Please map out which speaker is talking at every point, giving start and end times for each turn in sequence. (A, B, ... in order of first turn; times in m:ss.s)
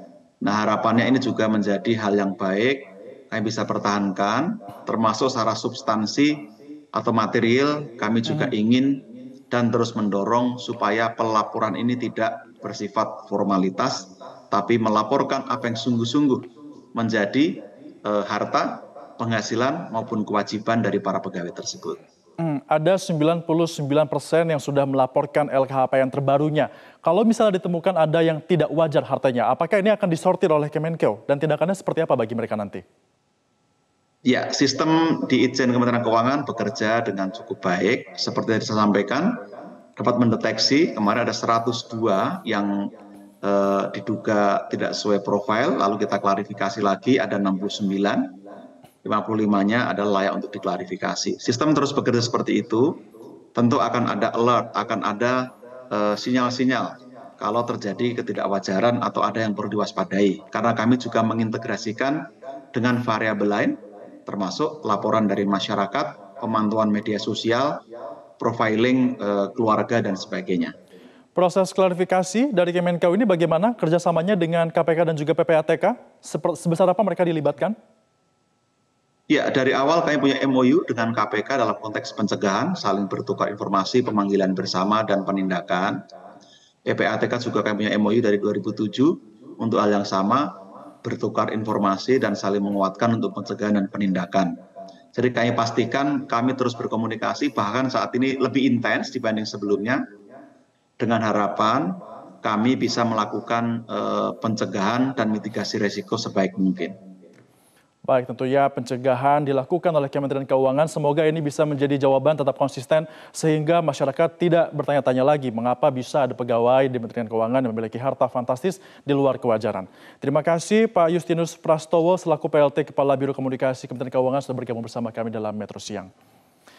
0:00.4-0:22.0 A
0:22.4-0:32.8 B
0:34.2-0:39.4 A
0:40.0-0:48.4 A
0:49.0-0:53.0 A
0:53.5-1:02.2 A
1:02.7-1:07.8 A
1:08.4-1:10.7 A
1:11.3-1:17.8 B
1:19.3-1:26.0 A
1:26.8-1:34.6 A
1:35.1-1:40.0 A
1:41.0-1:47.0 A
1:48.1-2:06.1 B